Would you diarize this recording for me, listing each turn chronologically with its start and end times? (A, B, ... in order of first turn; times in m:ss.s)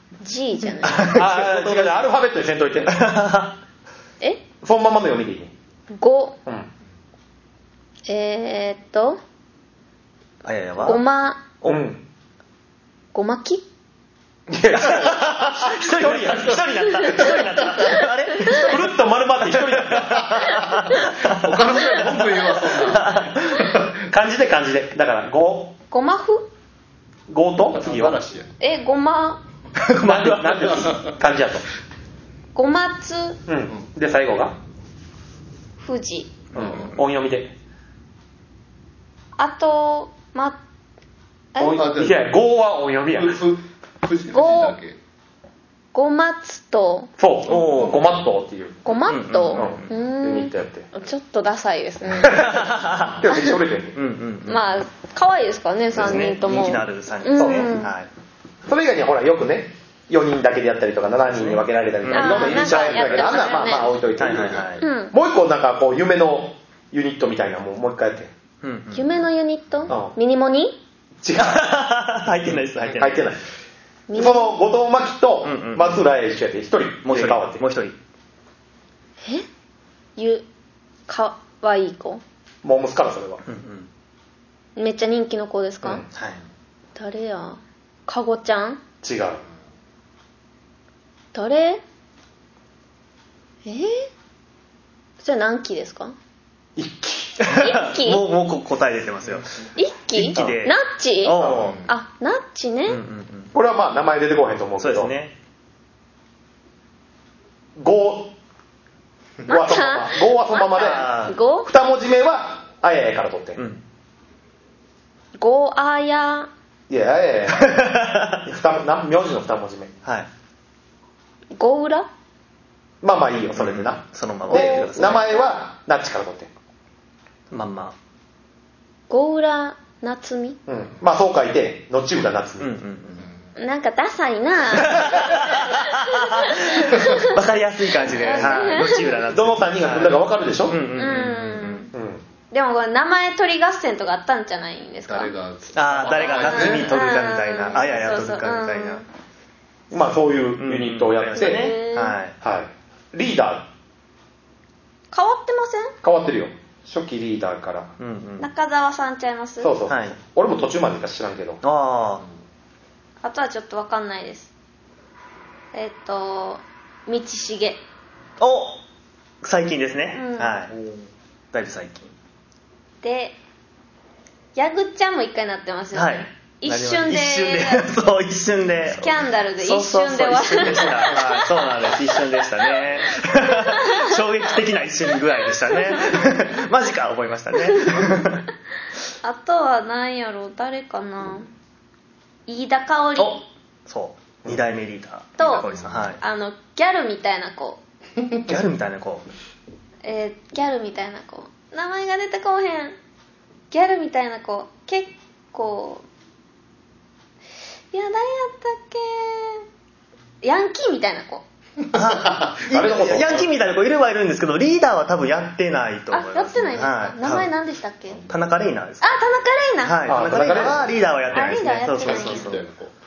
0:00.2-0:01.2 A
0:00.8-0:02.1 B
0:01.1-0:03.0 C
0:02.9-0:03.6 B
0:04.6-0:05.5 C
0:05.9-0:06.4 A
0:08.1-0:09.2 A
0:10.4-0:11.0 B
0:10.8-0:11.5 A
0:11.6-0:11.9 B
0:11.6-0:12.0 C
0:13.1-0:13.6 A
0:14.5-0:17.4 C
0:14.8-0:23.7 B
0:17.0-0:18.0 A
0:18.6-0:20.5 C
0:20.8-0:23.9 D
0:24.1-0:25.8 C
0:25.9-0:26.5 A
0:27.3-0:28.2 C
0:27.7-0:28.5 D
0:28.6-0:29.4 A
0:29.8-0:31.0 B
0:30.0-0:31.7 C
0:32.6-0:33.4 A
0:33.5-0:34.6 C
0:35.8-0:36.4 A
0:36.5-0:37.6 C
0:39.4-0:40.6 A
0:41.6-0:41.9 A
0:41.6-0:43.4 C
0:41.7-0:42.3 D
0:43.1-0:45.0 D
0:44.3-0:44.8 A
0:45.9-0:47.1 A
0:47.2-0:48.8 C
0:47.5-0:48.1 B
0:47.6-0:48.0 D
0:48.8-0:52.6 A
0:49.1-0:50.0 B
0:49.5-0:50.9 C
0:52.2-0:52.7 C
0:52.2-0:53.2 B
0:53.2-0:54.0 C
0:53.9-0:54.7 B
0:54.5-0:57.9 A
0:55.9-0:58.1 B
0:57.4-0:57.8 C
0:58.7-1:08.3 C
1:01.3-1:03.4 B
1:02.1-1:04.0 A
1:04.2-1:04.8 B
1:04.3-1:04.7 D
1:04.8-1:05.1 A
1:08.6-1:09.2 B
1:08.9-1:10.8 A
1:09.9-1:10.1 C
1:11.2-1:11.7 C
1:11.4-1:13.3 B
1:13.0-1:13.4 C
1:14.1-1:14.6 A
1:14.1-1:17.6 C
1:15.4-1:16.0 B
1:17.0-1:18.0 B
1:20.2-1:20.5 A
1:21.1-1:22.2 A
1:22.6-1:23.4 C
1:23.5-1:23.9 B
1:24.8-1:26.0 A
1:26.1-1:26.4 B
1:26.9-1:28.8 A
1:29.0-1:29.4 C
1:31.3-1:31.8 A
1:33.6-1:34.1 A
1:35.2-1:36.1 A
1:36.8-1:37.4 C
1:37.4-1:39.6 B
1:37.5-1:38.2 A
1:39.8-1:43.0 A
1:40.2-1:41.8 B
1:41.4-1:41.8 C
1:41.5-1:41.9 D
1:42.9-1:43.5 B
1:43.5-1:45.1 C
1:44.8-1:45.3 B
1:47.8-1:48.4 C
1:49.5-1:51.1 C
1:49.5-1:51.7 A
1:50.7-1:51.4 B
1:51.6-1:53.6 C
1:53.6-1:53.8 B
1:55.4-1:56.5 A
1:56.9-1:59.9 C
1:57.6-1:58.4 B
2:01.6-2:02.1 A
2:03.0-2:06.5 C
2:03.6-2:05.3 B
2:04.5-2:05.6 A
2:07.5-2:08.0 B
2:09.1-2:10.6 A
2:10.7-2:12.7 C
2:12.6-2:13.2 B
2:13.6-2:17.3 A
2:14.8-2:21.9 B
2:18.0-2:19.2 A
2:18.5-2:20.8 C
2:20.9-2:21.9 A
2:21.9-2:22.2 C
2:22.5-2:25.3 A
2:25.1-2:27.0 D
2:25.7-2:29.0 B
2:26.1-2:29.0 A
2:29.9-2:31.7 C
2:30.6-2:32.4 B
2:31.4-2:32.2 A
2:32.4-2:33.7 C
2:35.1-2:35.9 A
2:36.0-2:37.9 C
2:38.0-2:38.5 B
2:38.4-2:39.8 A
2:39.6-2:41.6 C
2:39.9-2:40.2 B
2:41.6-2:42.2 B
2:43.2-2:44.5 A
2:45.7-2:47.8 A
2:48.4-2:48.8 B
2:49.4-2:50.8 B
2:50.1-2:50.6 A
2:50.7-2:51.1 D
2:51.5-2:52.1 B
2:53.0-2:53.4 A
2:54.6-2:57.9 A
2:55.9-3:08.4 B
2:58.9-3:04.2 A
3:05.5-3:06.6 A
3:07.7-3:08.1 A
3:09.2-3:11.5 A
3:12.5-3:13.4 A
3:13.2-3:16.2 B
3:15.4-3:17.8 A
3:15.6-3:16.0 D
3:18.4-3:19.2 B
3:20.0-3:23.0 A
3:23.7-3:26.1 A
3:27.9-3:29.6 A
3:30.4-3:31.4 A
3:31.9-3:37.5 B
3:31.9-3:32.7 D
3:32.7-3:33.5 C
3:36.1-3:38.2 A
3:38.1-3:38.4 D
3:38.3-3:39.2 B
3:39.0-3:40.1 A
3:39.8-3:42.6 B
3:40.1-3:40.9 C
3:40.4-3:40.9 D
3:41.3-3:42.5 A
3:42.0-3:42.9 D